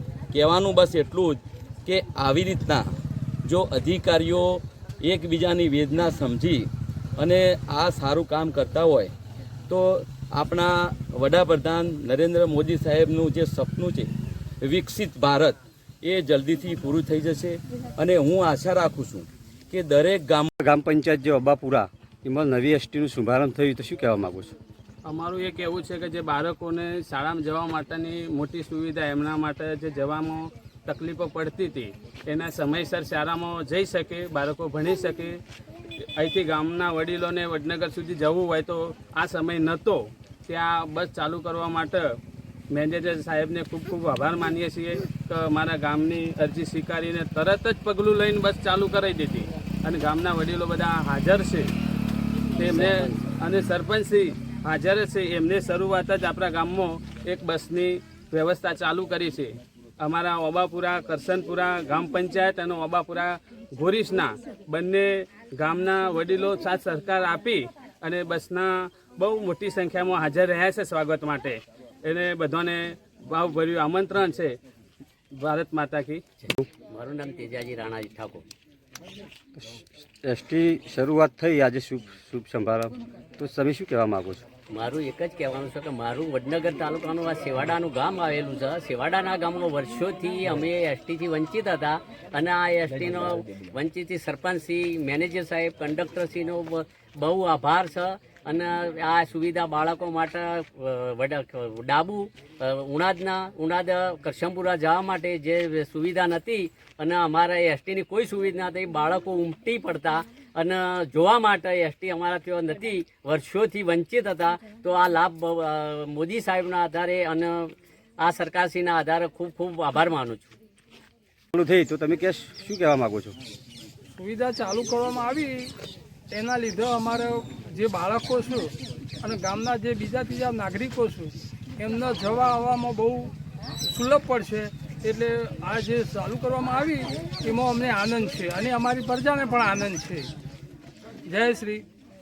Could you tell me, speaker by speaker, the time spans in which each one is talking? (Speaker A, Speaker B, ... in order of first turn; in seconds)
Speaker A: 0.3-2.9, 3.4-9.1, 9.7-14.1, 14.6-20.5
Speaker B: 20.6-24.6, 79.5-84.4, 121.5-123.3
Speaker C: 25.1-35.4, 36.1-42.2, 42.7-51.7, 52.6-74.6, 75.3-76.2
Speaker D: 52.6-53.3, 76.4-78.4, 84.7-120.5
Speaker E: 124.2-125.7, 126.3-128.7, 129.2-133.3, 133.9-140.3, 141.3-141.8